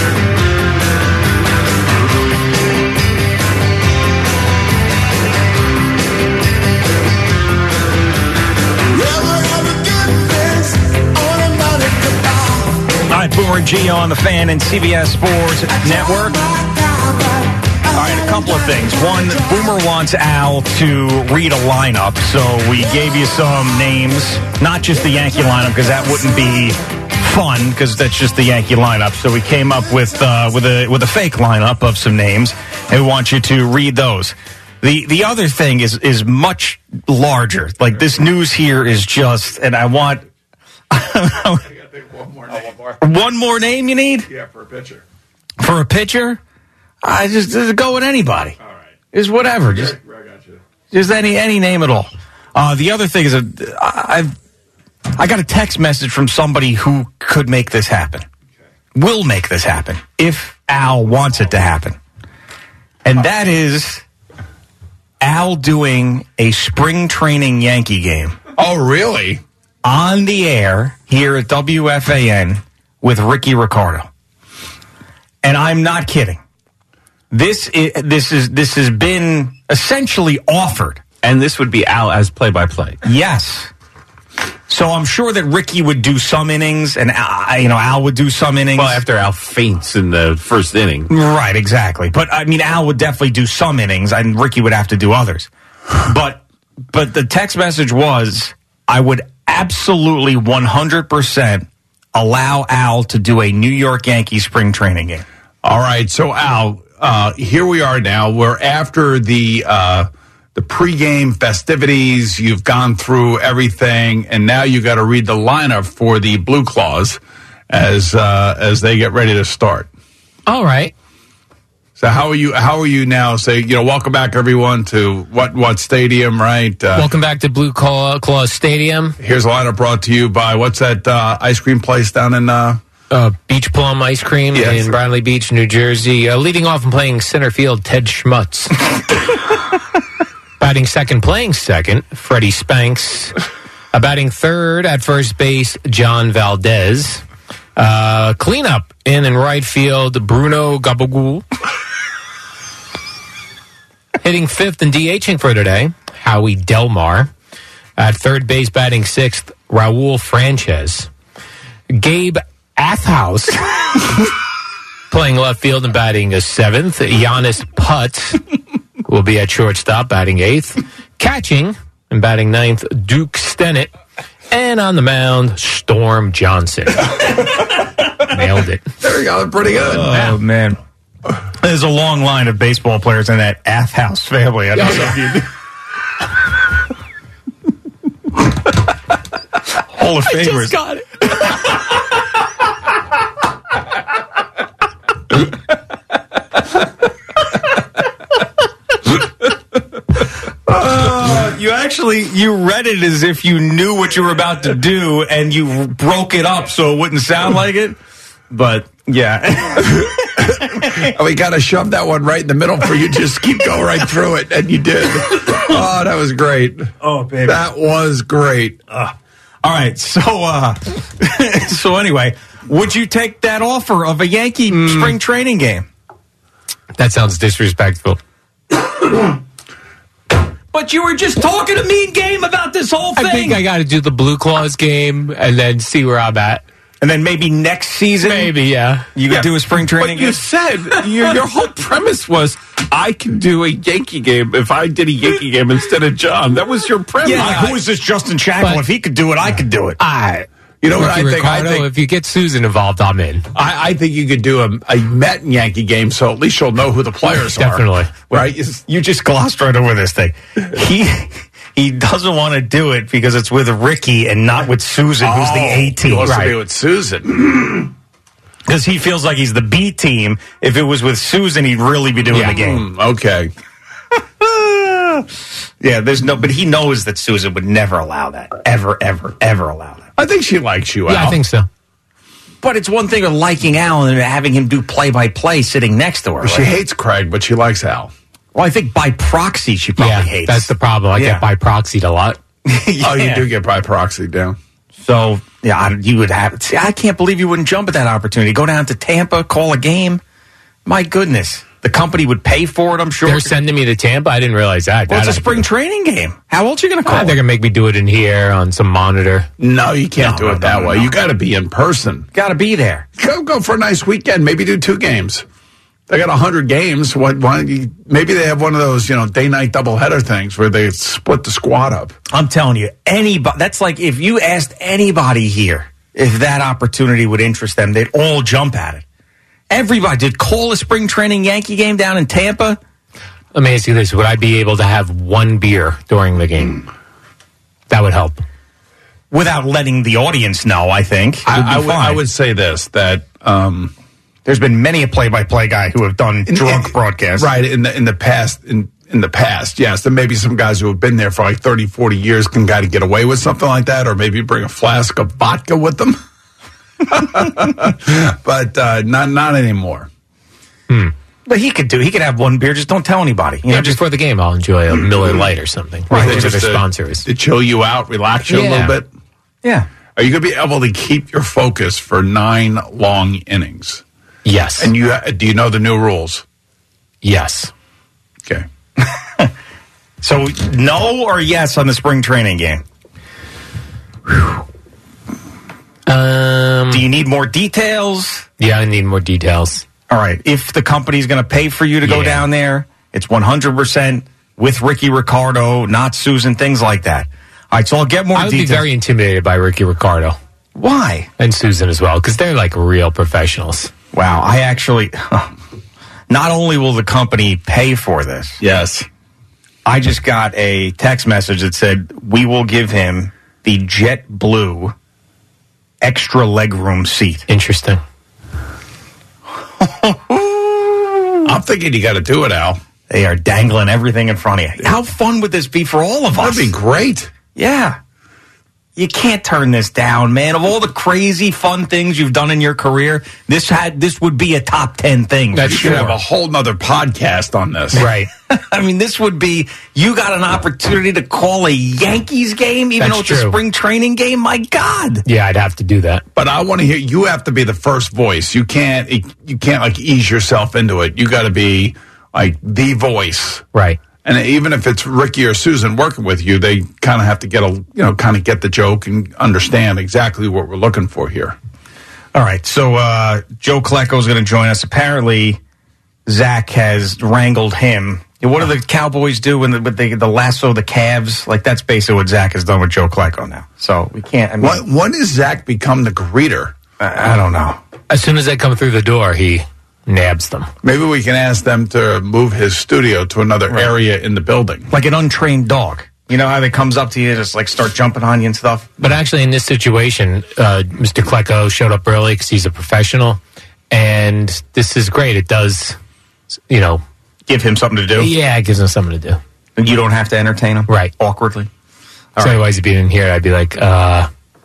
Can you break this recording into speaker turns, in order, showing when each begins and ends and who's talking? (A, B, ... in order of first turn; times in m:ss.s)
0:13.1-0:16.5 A
0:17.9-0:40.2 A
0:40.9-0:41.7 A
0:41.7-0:43.0 B
0:43.0-0:44.3 A
0:44.3-0:45.0 B
0:45.6-0:46.4 A
0:47.0-0:48.6 A
0:49.1-0:50.0 A
0:49.7-0:50.6 B
0:50.9-0:54.4 A
0:55.1-0:58.2 A
0:59.0-1:02.0 A
1:03.0-1:04.0 A
1:05.2-1:08.4 A
1:08.6-1:09.4 B
1:09.8-1:14.1 A
1:15.4-1:16.4 A
1:17.3-1:21.0 A
1:21.2-1:23.0 C
1:23.0-1:23.7 A
1:24.7-1:29.0 A
1:28.8-1:31.1 C
1:31.1-1:45.2 A
1:45.6-1:59.9 B
2:00.5-2:00.9 D
2:02.0-2:07.1 B
2:06.9-2:09.2 D
2:09.2-2:12.8 B
2:13.1-2:18.8 D
2:14.5-2:15.0 B
2:20.6-2:23.4 D
2:23.9-2:27.2 D
2:27.8-2:31.4 D
2:34.2-2:37.3 D
2:38.0-2:41.1 D
2:41.9-2:44.3 D
2:45.1-2:48.4 D
2:49.1-2:53.9 D
2:54.5-2:57.5 D
2:58.3-2:58.9 D
2:59.0-3:00.1 B
2:59.7-3:00.8 A
3:01.6-3:05.4 A
3:04.8-3:05.4 D
3:09.9-3:10.8 A
3:10.3-3:11.2 D
3:20.7-3:28.0 A
3:28.5-3:31.1 A
3:30.4-3:36.9 B
3:37.0-3:37.6 A
3:37.4-3:38.8 B
3:39.6-3:45.9 A
3:44.7-3:45.2 D
3:47.0-3:48.2 D
3:50.7-3:53.6 A
3:53.2-3:56.6 D
3:57.0-3:58.6 A
3:58.2-3:59.1 D
3:59.2-4:00.4 A
3:59.3-4:07.8 C
4:07.2-4:10.0 A
4:07.4-4:07.7 B
4:10.0-4:13.5 D
4:10.8-4:11.9 B
4:13.5-4:18.8 B
4:17.4-4:18.2 D
4:18.3-4:26.3 A
4:25.2-4:27.9 B
4:26.2-4:26.6 D
4:28.7-4:32.8 A
4:32.4-4:33.5 B
4:34.4-4:35.3 A
4:35.8-4:40.1 A
4:40.2-4:41.4 B
4:41.1-4:41.7 D
4:42.6-4:46.7 A
4:46.4-4:48.1 B
4:48.6-4:51.5 A
4:50.0-4:52.4 D
4:52.7-4:53.5 A
4:53.0-4:54.6 B
4:55.0-5:00.2 A
5:00.9-5:03.6 A
5:03.2-5:05.7 D
5:05.1-5:07.4 A
5:07.1-5:09.5 D
5:09.6-5:12.3 B
5:10.2-5:11.1 A
5:12.3-5:13.1 A
5:13.2-5:15.4 B
5:16.1-5:22.2 B
5:22.3-5:29.0 A
5:29.7-5:32.8 A
5:33.5-5:36.9 D
5:37.9-5:38.4 D
5:39.3-5:42.2 A
5:41.5-5:43.9 B
5:44.5-5:47.5 A
5:46.5-5:56.2 B
5:57.1-6:00.1 B
6:00.9-6:01.1 D
6:01.5-6:04.0 A
6:03.7-6:07.3 D
6:06.1-6:09.1 B
6:08.5-6:09.0 D
6:10.2-6:14.0 B
6:14.4-6:14.9 D
6:14.8-6:16.4 B
6:17.2-6:17.7 D
6:19.0-6:19.5 A
6:20.2-6:22.8 A
6:26.1-6:27.0 D
6:26.9-6:28.4 A
6:28.6-6:29.8 D
6:30.1-6:38.9 A
6:32.0-6:32.5 D
6:38.4-6:40.4 D
6:40.8-6:41.3 A
6:41.4-6:43.9 D
6:44.1-6:45.5 A
6:46.3-6:48.6 A
6:48.6-6:49.1 B
6:49.8-6:55.0 A
6:56.0-6:57.5 A
6:57.5-6:58.0 D
6:59.8-7:01.5 A
7:01.4-7:02.8 B
7:03.1-7:06.7 A
7:06.4-7:07.3 B
7:07.6-7:08.0 A
7:09.0-7:16.0 A
7:15.5-7:16.2 D
7:15.6-7:18.0 B
7:17.9-7:18.3 D
7:18.0-7:25.2 A
7:23.0-7:23.6 D
7:25.2-7:26.2 D
7:26.4-7:33.6 B
7:33.7-7:34.0 D
7:34.2-7:41.6 B
7:42.3-7:45.6 A
7:46.3-7:54.8 A
7:54.6-7:56.8 B
7:57.0-7:57.8 A
7:58.1-8:00.7 D
8:00.8-8:04.9 B
8:04.9-8:08.9 A
8:09.0-8:16.0 D
8:16.7-8:17.0 D
8:17.5-8:18.3 A
8:18.2-8:19.4 D
8:19.8-8:21.7 A
8:20.9-8:21.1 D
8:22.4-8:22.7 A
8:22.4-8:24.3 D